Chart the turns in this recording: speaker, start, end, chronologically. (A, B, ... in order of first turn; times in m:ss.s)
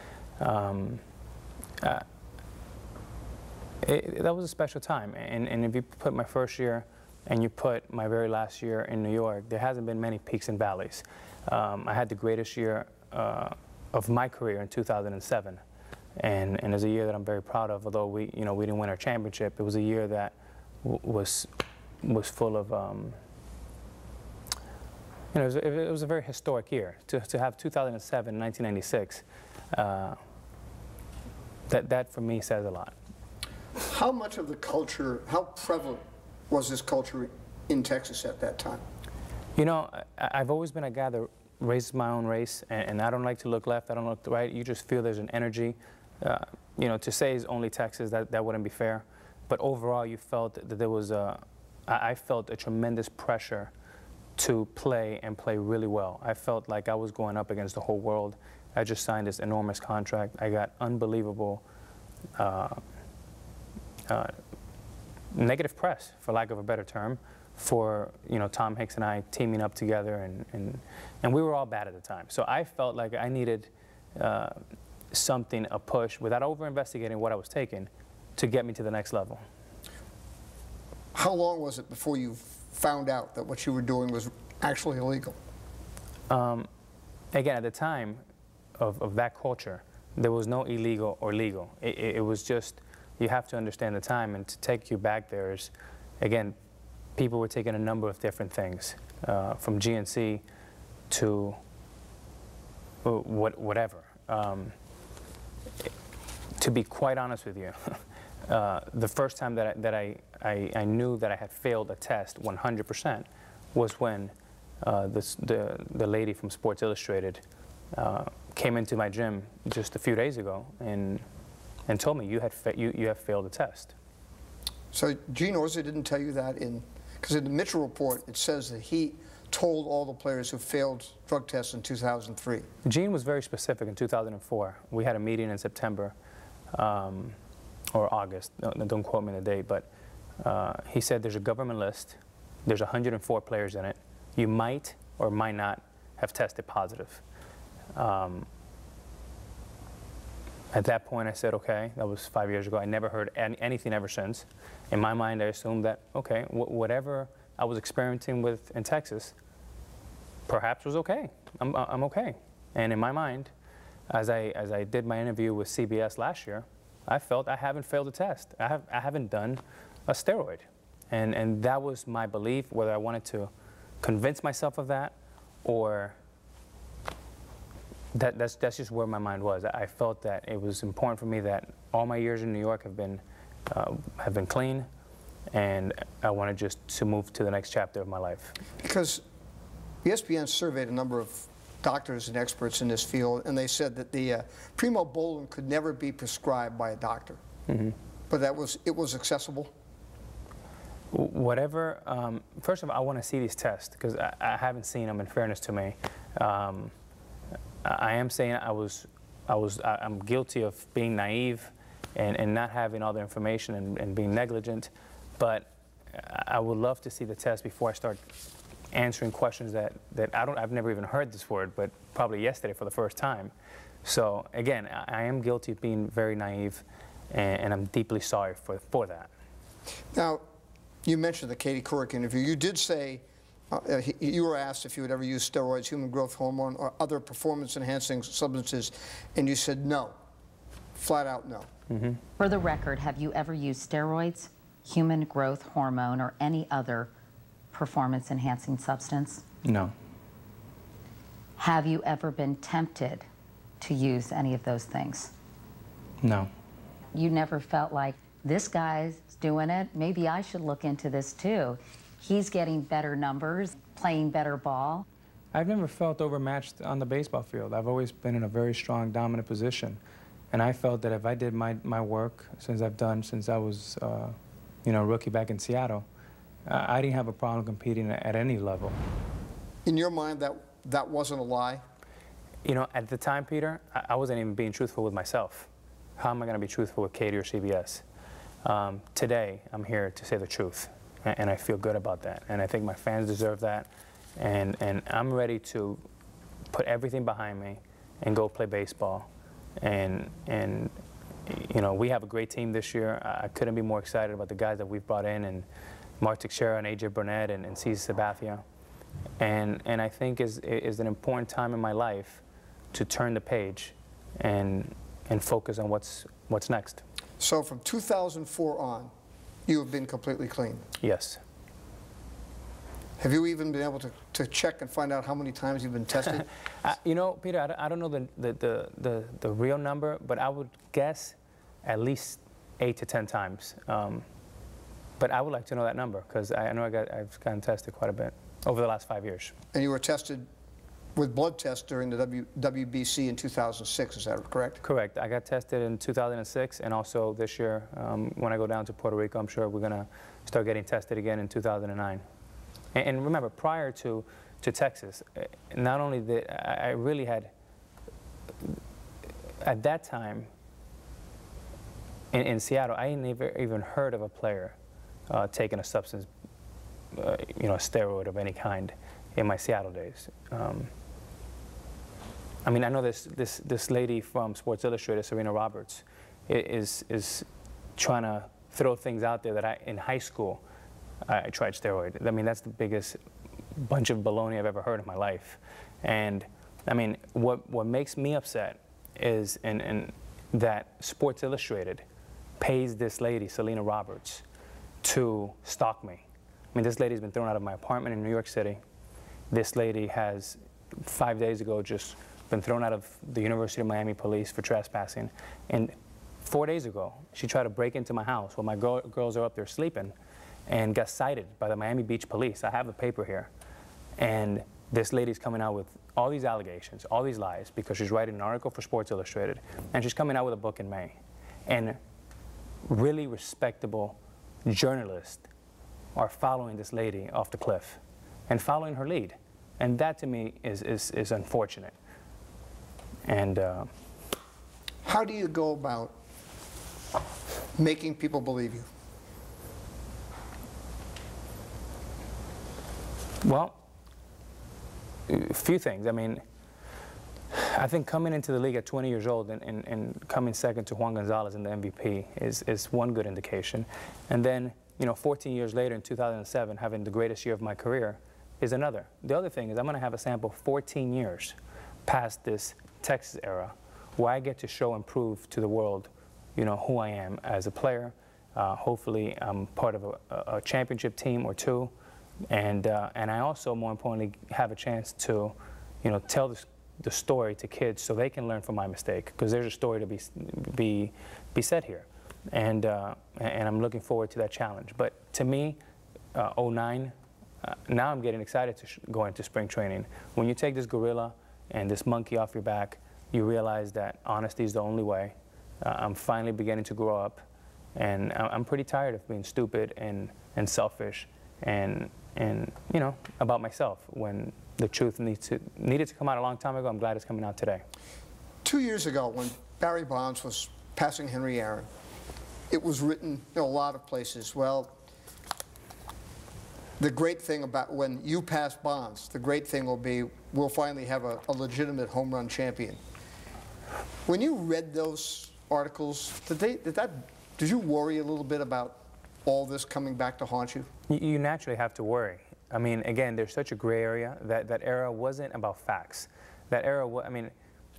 0:00.4-0:01.0 A
0:01.8-0:02.0 A
0:03.8-0:15.6 A
0:16.2-0:21.5 A
0:22.0-0:23.2 A
0:25.3-0:30.2 A
0:31.7-0:32.9 A
0:33.8-0:38.8 B
0:39.6-0:53.7 A
0:54.4-1:01.6 A
1:02.4-1:02.8 A
1:04.1-1:04.4 A
1:05.3-1:14.6 A
1:15.1-1:19.4 A
1:21.1-1:25.4 B
1:26.3-1:26.7 A
1:27.3-1:28.2 A
1:28.8-1:36.6 A
1:37.2-1:40.4 A
1:41.1-1:41.6 A
1:43.0-1:44.7 A
1:46.6-1:57.4 A
1:57.9-2:01.2 A
2:01.9-2:03.9 A
2:04.9-2:12.7 B
2:12.8-2:16.2 A
2:16.7-2:17.4 A
2:17.9-2:19.9 A
2:20.4-2:27.2 A
2:28.0-2:28.5 A
2:30.7-2:39.3 A
2:40.5-2:43.5 A
2:44.1-2:53.5 A
2:54.0-2:56.2 A
2:58.1-3:04.9 A
3:05.5-3:08.6 A
3:08.8-3:09.2 B
3:10.0-3:17.4 B
3:17.7-3:18.0 A
3:18.3-3:19.7 B
3:21.1-3:26.9 A
3:27.8-3:38.2 A
3:38.9-3:43.5 A
3:44.0-3:49.3 A
3:50.1-3:50.4 B
3:51.0-4:00.2 B
4:01.0-4:01.7 B
4:01.9-4:02.2 A
4:02.4-4:07.1 C
4:07.7-4:09.4 C
4:09.6-4:09.9 A
4:11.6-4:13.3 C
4:13.8-4:15.3 C
4:16.2-4:16.5 A
4:17.1-4:25.0 C
4:25.5-4:30.0 A
4:30.5-4:36.0 A
4:36.7-4:39.0 A
4:39.8-4:41.8 B
4:42.6-4:48.0 A
4:48.6-4:56.0 A
4:56.7-4:59.3 A
4:59.8-5:00.9 A
5:01.5-5:05.7 A
5:06.2-5:08.6 A
5:09.4-5:12.4 A
5:12.9-5:17.0 A
5:17.4-5:19.1 B
5:19.6-5:20.8 B
5:21.0-5:21.4 A
5:23.2-5:26.5 B
5:26.8-5:34.2 A
5:35.2-5:39.5 A
5:39.7-5:40.5 B
5:41.2-5:44.8 B
5:44.8-5:52.2 A
5:52.9-5:57.5 A
5:59.6-6:00.5 A
6:02.3-6:04.8 A
6:05.3-6:06.3 A
6:07.1-6:10.9 A
6:12.6-6:17.4 A
6:18.0-6:20.6 A
6:21.2-6:23.2 A
6:23.8-6:32.0 A
6:32.6-6:34.4 A
6:35.0-6:38.8 A
6:39.5-6:50.1 A
6:50.7-6:53.5 A
6:54.2-7:02.0 A
7:02.8-7:05.4 A
7:06.1-7:11.9 A
7:13.2-7:13.9 A
7:15.0-7:16.1 B
7:17.8-7:18.9 B
7:23.4-7:23.8 A
7:25.3-7:26.4 A
7:27.5-7:41.5 A
7:42.1-7:51.9 A
7:52.5-8:05.8 A
8:06.3-8:17.4 A
8:18.0-8:27.8 A
8:28.6-8:31.9 B
8:32.7-8:34.9 B
8:37.0-8:43.0 B
8:44.2-8:50.9 B
8:51.1-8:57.5 A